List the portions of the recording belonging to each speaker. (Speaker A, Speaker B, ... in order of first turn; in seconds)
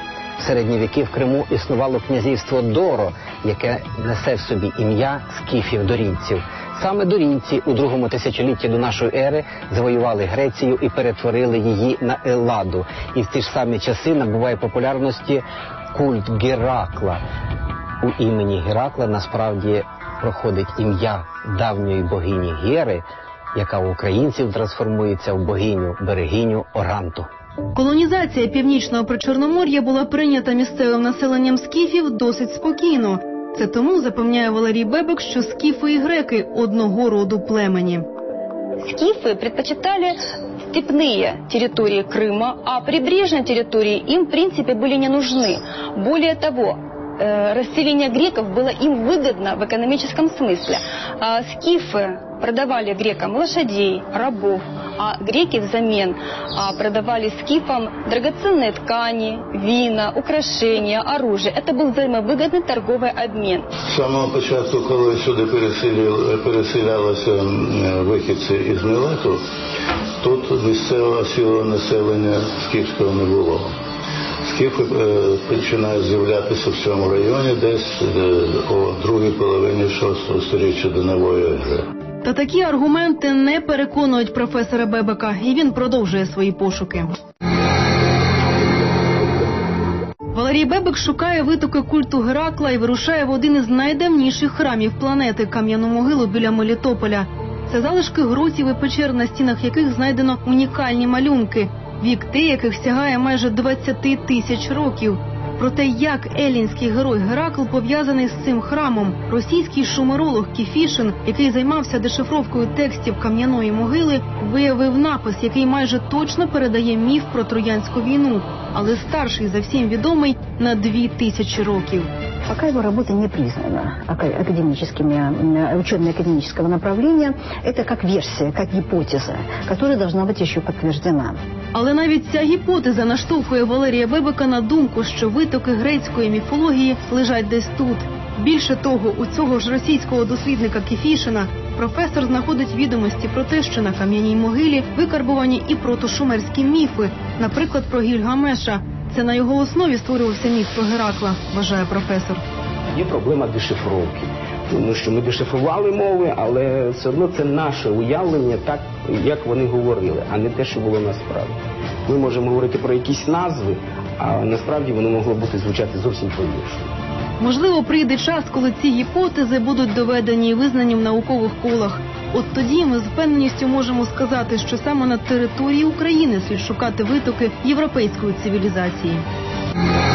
Speaker A: 0.4-17.2, 18.0-27.3
Speaker B: 27.7-38.0, 82.2-87.1, 90.3-122.1, 131.7-152.4, 167.4-179.2
Speaker C: 38.8-40.1, 40.7-63.6
Speaker D: 63.9-69.4, 70.2-73.7, 74.4-81.8
Speaker E: 122.5-131.4
Speaker F: 153.0-161.5, 162.1-166.8